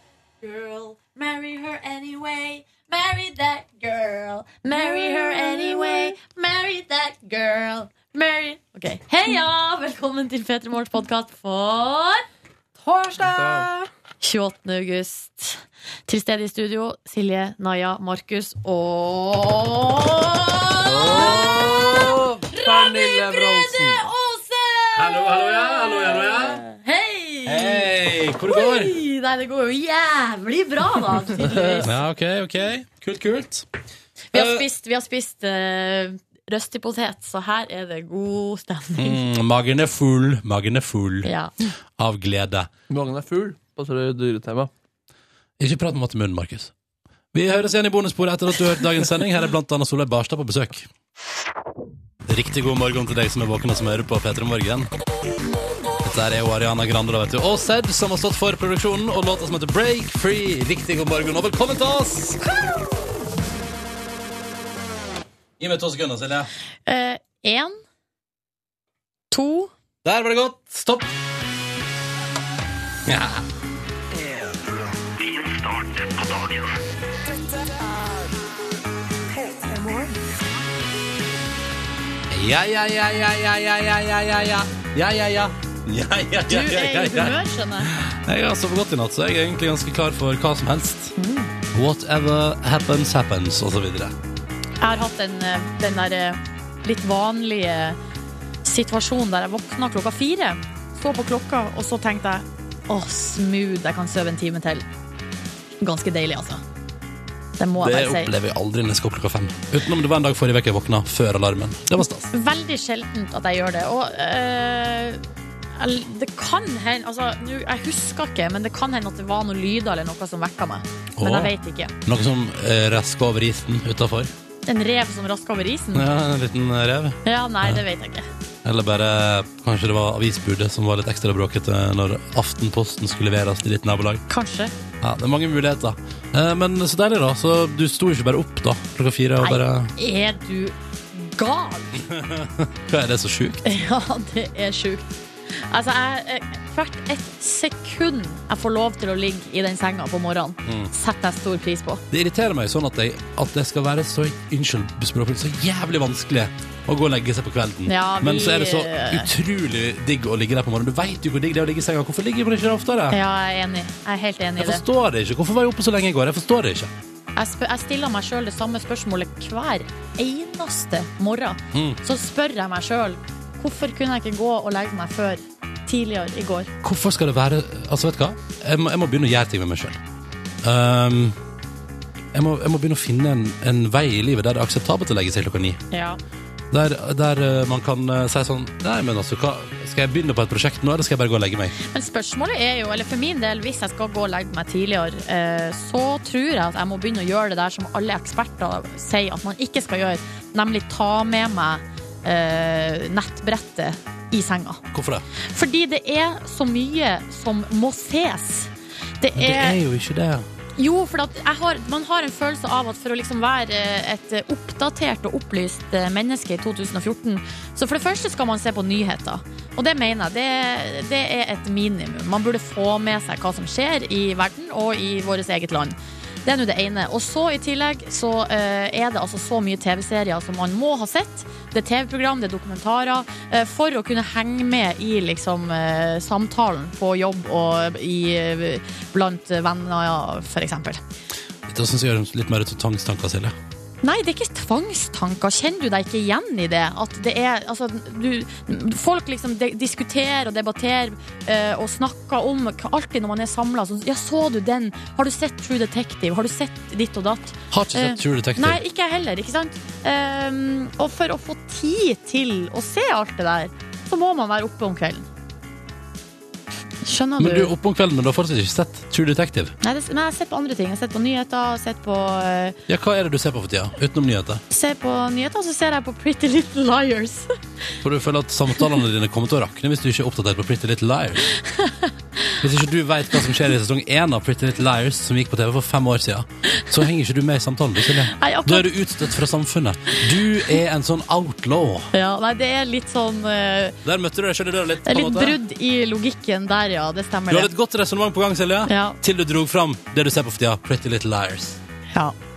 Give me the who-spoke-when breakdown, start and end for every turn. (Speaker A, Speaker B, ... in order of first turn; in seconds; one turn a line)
Speaker A: 0.4-12.3
Speaker A: 12.8-27.9
Speaker B: 13.3-13.7
Speaker B: 20.9-21.4
Speaker C: 21.0-23.7
Speaker B: 22.5-23.8
Speaker C: 24.9-26.6
Speaker C: 27.5-29.0
Speaker A: 28.4-32.0
Speaker C: 31.8-33.7
Speaker A: 34.3-39.2
Speaker C: 34.3-34.7
Speaker C: 39.0-41.3
Speaker A: 41.2-41.5
Speaker C: 42.0-42.7
Speaker B: 42.9-44.7
Speaker C: 45.6-46.7
Speaker C: 47.3-50.9
Speaker C: 52.3-54.9
Speaker C: 56.0-62.4
Speaker A: 62.5-62.9
Speaker C: 65.6-66.5
Speaker A: 66.9-67.8
Speaker A: 69.3-69.7
Speaker C: 70.0-71.1
Speaker C: 73.0-73.5
Speaker C: 82.3-91.1
Speaker A: 86.5-87.9
Speaker A: 91.2-91.5
Speaker C: 91.7-94.2
Speaker A: 94.8-98.0
Speaker A: 98.7-104.9
Speaker A: 105.8-106.6
Speaker A: 107.6-108.3
Speaker C: 107.8-112.3
Speaker A: 112.3-115.2
Speaker A: 115.8-121.9
Speaker C: 121.2-121.5
Speaker C: 122.0-124.3
Speaker A: 124.7-126.1
Speaker C: 125.9-127.8
Speaker A: 127.2-128.3
Speaker C: 128.7-134.2
Speaker A: 134.3-134.7
Speaker C: 135.0-139.9
Speaker A: 139.4-142.1
Speaker C: 142.1-143.7
Speaker A: 143.6-152.0
Speaker C: 150.7-150.9
Speaker C: 152.1-163.2
Speaker A: 157.9-159.3
Speaker A: 163.1-164.8
Speaker C: 164.6-166.9
Speaker A: 167.3-176.7
Speaker C: 171.7-172.0
Speaker C: 176.8-180.0
Speaker C: 180.6-181.4
Speaker C: 182.3-185.8
Speaker A: 185.9-186.2
Speaker C: 186.7-191.8
Speaker A: 191.8-204.8
Speaker C: 204.9-205.3
Speaker A: 205.5-209.8
Speaker C: 209.4-210.5
Speaker A: 210.8-241.0
Speaker C: 241.7-243.6
Speaker A: 244.0-265.3
Speaker C: 257.7-258.8
Speaker A: 267.0-267.7
Speaker C: 267.4-269.8
Speaker A: 269.8-272.8
Speaker C: 272.9-274.6
Speaker A: 274.7-277.5
Speaker C: 278.0-281.5
Speaker A: 281.7-282.6
Speaker C: 282.6-292.1
Speaker A: 288.3-288.9
Speaker A: 292.1-294.0
Speaker C: 294.0-295.6
Speaker A: 295.1-297.7
Speaker C: 297.5-301.8
Speaker A: 298.9-299.2